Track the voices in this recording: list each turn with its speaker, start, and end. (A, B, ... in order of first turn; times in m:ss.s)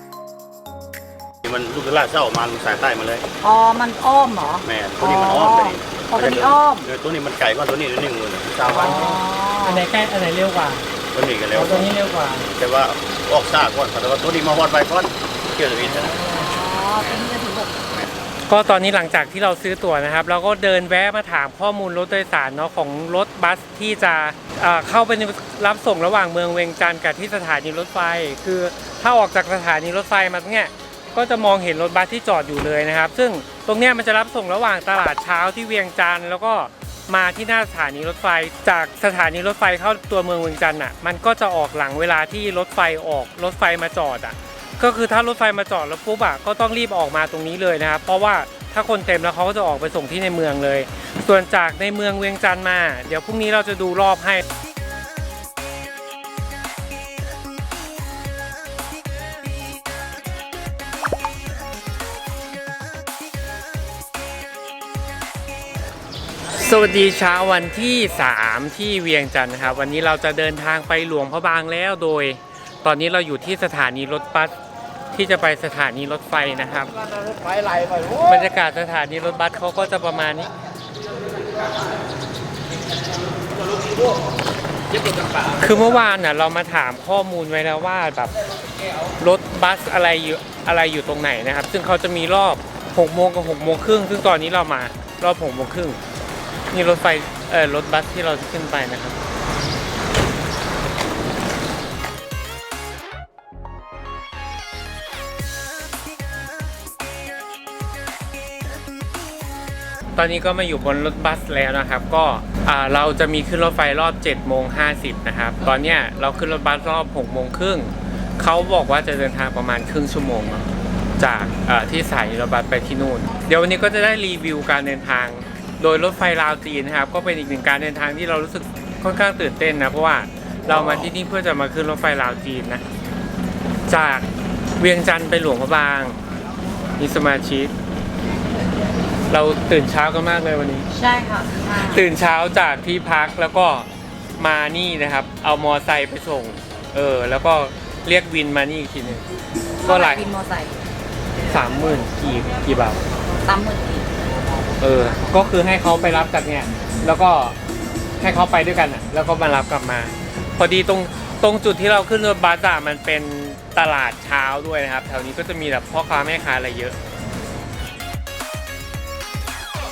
0:01.4-0:03.2 A
0:03.4-0:06.9 B
0:04.6-0:09.0 A
0:08.7-0:09.8 B
0:08.7-0:10.8 C
0:11.1-0:11.9 A
0:11.5-0:12.5 C
0:12.6-0:16.2 A
0:16.1-0:17.8 B
0:18.5-0:54.4 C
1:06.5-1:14.5 C
1:15.1-1:16.9 C
1:18.2-1:20.5 C
1:25.5-1:28.4 C
1:29.2-1:36.0 C
1:36.7-1:39.2 C
1:50.2-2:12.8 C
2:13.9-2:14.3 C
2:14.8-2:16.2 C
2:17.0-2:17.7 C
2:19.3-2:20.8 C
2:20.9-2:22.1 B
2:21.8-2:29.2 C
2:29.8-2:30.8 B
2:29.8-2:30.2 C
2:31.5-2:33.0 C
2:33.4-2:34.1 B
2:34.8-2:37.6 C
2:38.2-2:47.0 C